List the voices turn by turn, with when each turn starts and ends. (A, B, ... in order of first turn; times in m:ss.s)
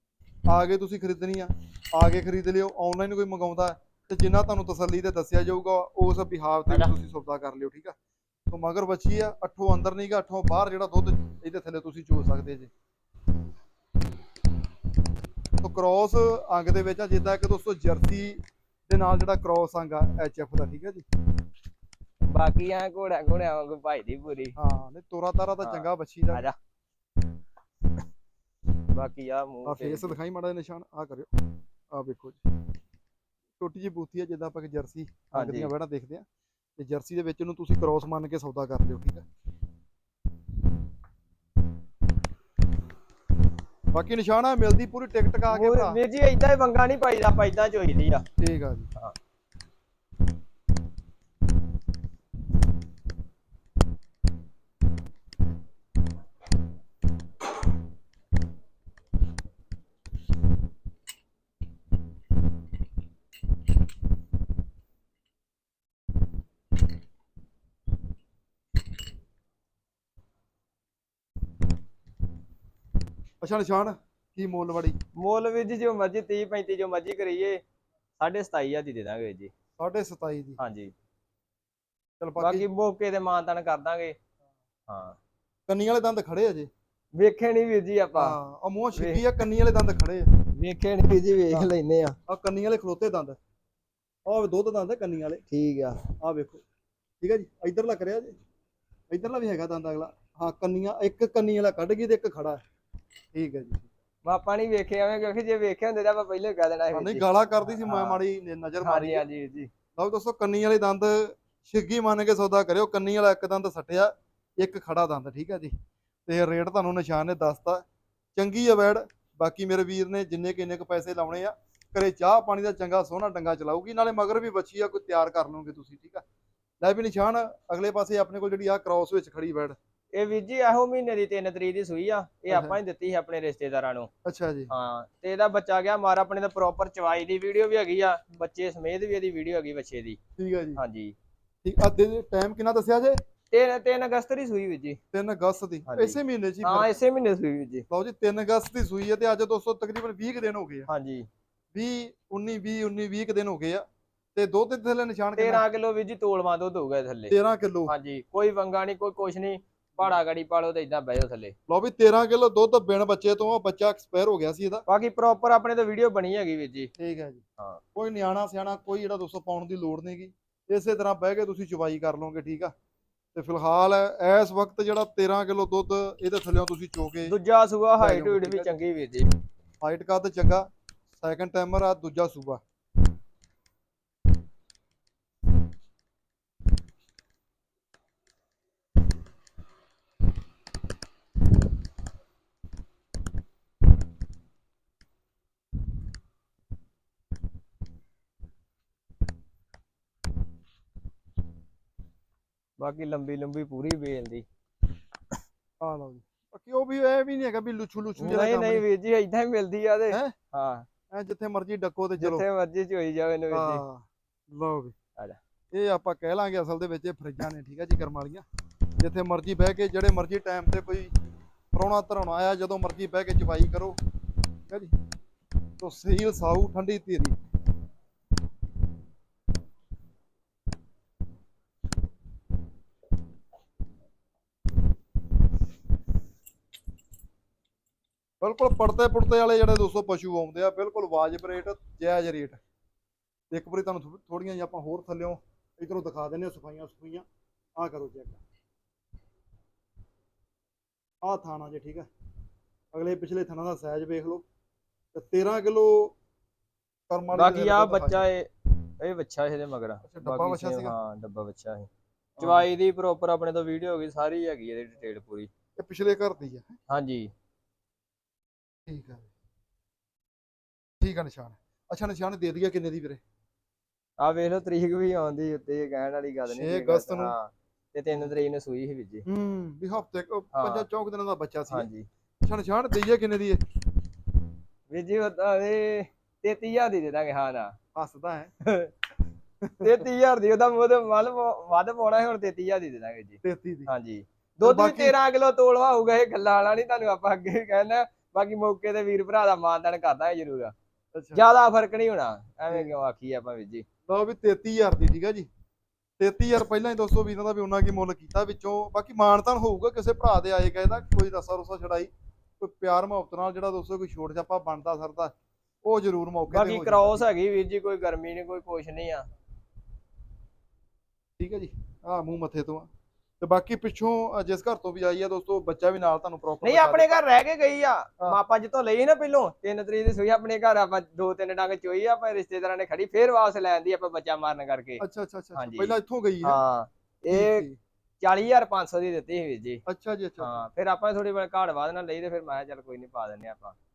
0:00.5-0:07.9 A
0:08.5-0:12.7 A
0:15.6-0:21.0 A
0:22.2-0:24.6 B
0:24.6-0:26.4 A
0:25.6-0:26.5 B
0:28.9-0:30.2 B
0:29.6-0:31.3 A
0:31.9-0:32.4 A
0:33.6-0:36.2 A
0:35.3-0:35.7 B
0:36.8-0:39.2 A
0:43.9-0:46.0 A
0:45.5-0:48.2 B
0:48.4-0:48.9 A
1:13.4-1:15.0 A
1:15.2-1:17.6 B
1:18.2-1:19.5 B
1:19.8-1:20.6 A
1:20.6-1:20.9 B
1:22.2-1:22.6 A
1:22.4-1:24.2 B
1:24.9-1:25.2 B
1:25.7-1:26.7 A
1:27.1-1:28.4 B
1:28.2-1:30.3 A
1:28.9-1:29.2 B
1:30.6-1:32.2 B
1:32.3-1:33.4 A
1:34.3-1:35.4 A
1:35.5-1:36.0 B
1:36.2-1:36.6 A
1:37.2-1:38.4 A
1:39.1-1:42.6 A
1:43.3-1:43.9 A
1:44.2-1:48.2 B
1:46.9-1:49.2 A
1:48.8-1:49.7 B
1:50.0-1:55.7 A
1:56.3-2:06.2 A
2:06.8-2:09.8 A
2:10.1-2:14.1 B
2:12.5-2:12.8 A
2:14.2-2:14.7 A
2:14.7-2:20.2 B
2:20.4-2:20.8 A
2:20.8-2:21.1 B
2:21.6-2:23.2 A
2:23.5-2:25.0 B
2:25.1-2:27.0 A
2:25.9-2:27.8 B
2:27.9-2:30.9 A
2:30.9-2:31.3 B
2:31.7-2:33.8 A
2:34.3-2:35.6 A
2:35.4-2:37.4 B
2:37.3-2:37.9 A
2:37.9-2:41.5 B
2:41.7-2:44.8 A
2:44.9-2:46.9 B
2:47.0-2:47.4 A
2:47.9-2:52.7 A
2:53.3-2:57.3 A
2:57.2-2:59.3 B
2:58.0-2:58.7 A
2:59.8-3:00.6 A
3:01.2-3:02.6 A
3:22.8-3:24.4 B
3:25.8-3:28.8 A
3:28.2-3:30.8 B
3:31.1-3:32.4 A
3:32.2-3:33.8 B
3:33.5-3:34.9 A
3:35.7-3:38.4 A
3:39.0-3:41.1 A
3:41.7-3:44.0 A
3:45.8-3:47.3 A
3:58.4-4:02.6 A
4:03.5-4:07.2 A
4:07.8-4:08.4 A
4:11.2-4:12.1 A
4:12.9-4:14.4 A
4:15.1-4:16.1 A
4:17.1-4:18.2 A
4:17.3-4:21.9 B
4:20.0-4:21.0 A
4:22.4-4:22.7 A
4:22.4-4:25.5 B
4:25.8-4:26.8 A
4:26.9-4:27.3 B
4:28.9-4:29.3 A
4:31.0-4:33.2 A
4:34.2-4:39.2 B
4:36.5-4:37.3 A
4:39.2-4:41.9 A
4:40.5-4:40.8 B
4:41.7-4:42.1 B
4:42.4-4:43.6 A
4:44.9-4:47.7 B
4:47.9-4:48.5 A
4:48.6-4:48.9 B
4:49.6-4:49.9 A
4:49.8-5:00.7 B
4:53.4-4:53.9 A
4:54.6-4:55.2 A
5:01.1-5:01.4 A
5:01.3-5:03.8 B
5:04.1-5:05.5 A
5:06.2-5:15.3 A
5:15.8-5:17.3 A
5:16.5-5:19.3 B
5:21.4-5:22.9 A
5:23.4-5:27.2 A
5:26.6-5:35.0 B
5:35.0-5:36.6 A
5:35.5-5:37.7 B
5:37.3-5:37.8 A
5:38.2-5:39.8 B
5:39.8-5:40.6 A
5:40.4-5:43.8 B